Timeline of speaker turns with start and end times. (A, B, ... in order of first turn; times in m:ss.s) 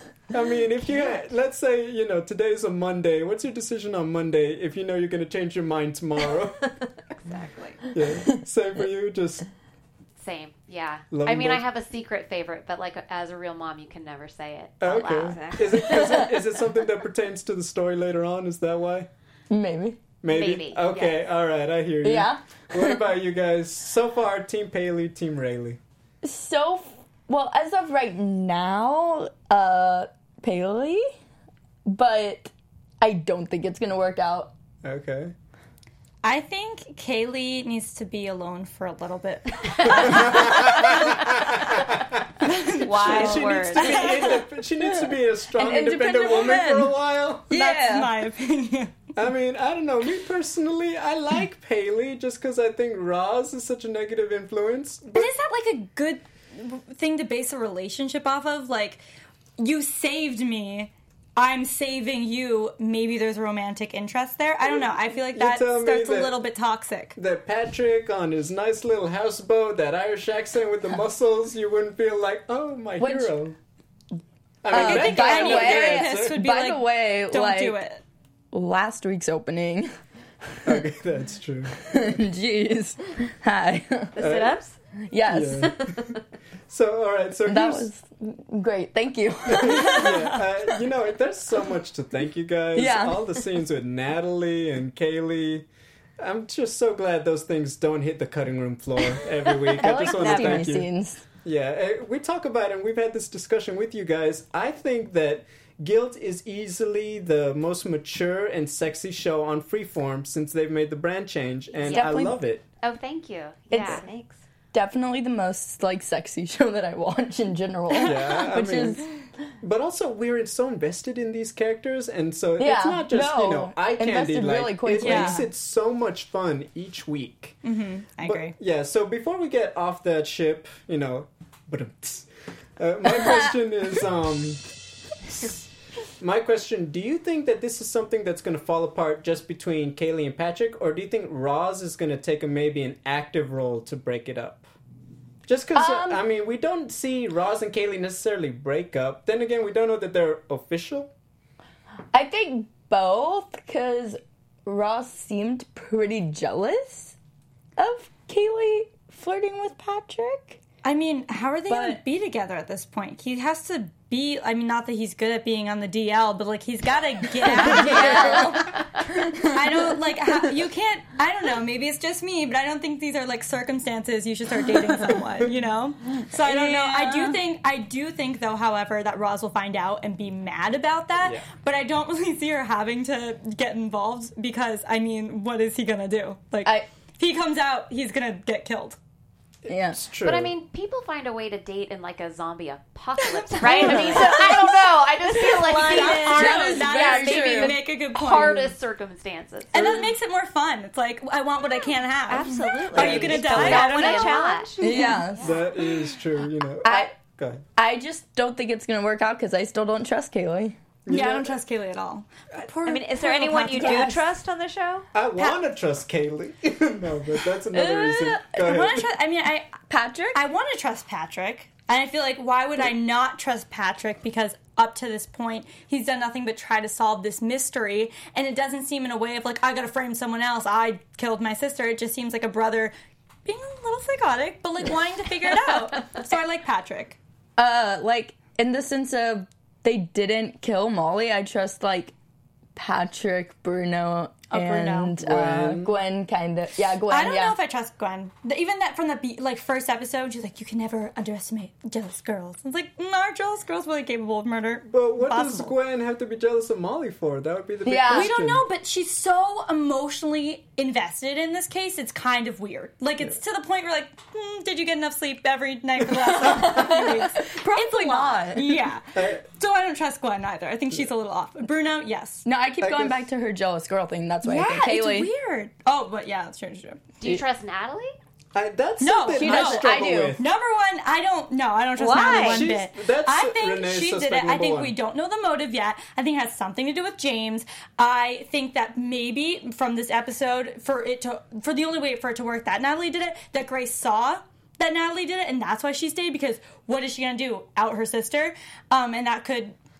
0:00.3-0:06.7 A
0:07.2-0:07.9 B
0:07.9-0:09.5 A
0:10.2-0:15.9 C
0:11.1-0:11.6 A
0:14.8-0:19.1 A
0:15.2-0:15.8 B
0:15.8-0:16.2 D
0:19.5-0:20.0 D
0:20.2-0:25.8 A
0:20.3-0:20.8 C
0:20.9-0:21.2 B
0:22.0-0:23.0 D
0:26.2-0:31.1 D
0:31.9-0:34.5 D
0:34.8-0:35.3 A
0:36.2-0:41.0 E
0:39.8-0:42.2 A
0:39.9-0:40.3 C
0:42.4-0:43.1 E
0:42.8-0:44.1 B
0:42.8-0:47.5 A
0:42.9-0:44.0 C
0:43.8-0:44.4 E
0:44.8-0:46.9 D
0:47.5-0:48.1 D
0:47.5-0:49.1 E
0:49.1-0:55.3 A
0:55.1-0:59.0 E
0:59.6-1:07.2 E
1:05.3-1:06.3 A
1:07.2-1:13.6 A
1:13.0-1:13.3 D
1:14.6-1:16.4 A
1:14.7-1:17.8 D
1:14.7-1:18.0 E
1:18.5-1:19.9 D
1:20.6-1:22.1 A
1:21.8-1:24.2 D
1:24.2-1:24.7 B
1:24.2-1:24.6 A
1:25.0-1:25.7 D
1:25.3-1:26.2 A
1:25.8-1:26.2 B
1:26.7-1:27.9 A
1:27.4-1:30.4 D
1:29.5-1:35.6 A
1:29.7-1:30.2 E
1:32.7-1:33.5 D
1:36.2-1:40.9 A
1:39.8-1:40.7 B
1:39.8-1:41.2 D
1:41.4-1:52.6 A
1:51.8-1:52.1 C
1:51.8-1:52.4 D
1:52.8-1:54.0 C
1:53.7-1:54.0 D
1:53.7-1:54.4 B
1:54.7-1:59.1 D
1:58.0-1:59.0 A
1:59.6-2:07.6 A
2:02.6-2:05.4 D
2:05.0-2:05.5 E
2:07.6-2:08.5 E
2:08.2-2:14.6 A
2:13.0-2:13.5 D
2:15.3-2:15.6 A
2:16.2-2:24.6 A
2:25.5-2:31.1 A
2:25.7-2:26.2 D
2:32.1-2:37.2 D
2:37.8-2:40.6 D
2:40.8-2:48.7 E
2:41.7-2:42.0 D
2:47.4-2:50.6 D
2:48.1-2:49.1 C
2:49.5-3:09.0 E
2:56.3-2:57.4 D
3:01.2-3:01.4 A
3:09.6-3:10.5 A
3:09.7-3:10.0 D
3:10.2-3:20.0 C
3:13.2-3:14.7 E
3:13.6-3:16.9 B
3:13.9-3:14.2 A
3:15.5-3:18.7 E
3:16.3-3:17.8 D
3:19.7-3:25.2 E
3:22.3-3:24.8 B
3:22.9-3:23.8 A
3:23.0-3:25.7 C
3:24.8-3:25.5 D
3:25.4-3:27.6 A
3:26.8-3:27.1 D
3:27.8-3:30.8 D
3:31.0-3:31.5 A
3:31.1-3:34.2 E
3:32.8-3:35.1 B
3:33.8-3:34.1 D
3:35.1-3:39.1 A
3:37.7-3:38.8 D
3:38.6-3:52.9 E
3:39.9-3:40.4 D
3:53.4-3:57.2 E
3:57.6-4:02.1 D
4:02.8-4:07.6 D
4:04.5-4:05.1 E
4:05.2-4:06.0 A
4:07.1-4:15.7 E
4:14.8-4:18.6 A
4:17.8-4:18.3 D
4:18.1-4:32.4 E
4:26.4-4:28.8 D
4:29.1-4:29.4 A
4:32.4-4:35.3 D
4:32.8-4:33.2 A
4:34.4-4:37.0 E
4:37.2-4:38.1 C
4:38.5-4:40.4 A
4:39.0-4:59.8 E
4:39.3-4:40.4 D
4:42.0-4:42.7 B
4:42.4-4:44.9 A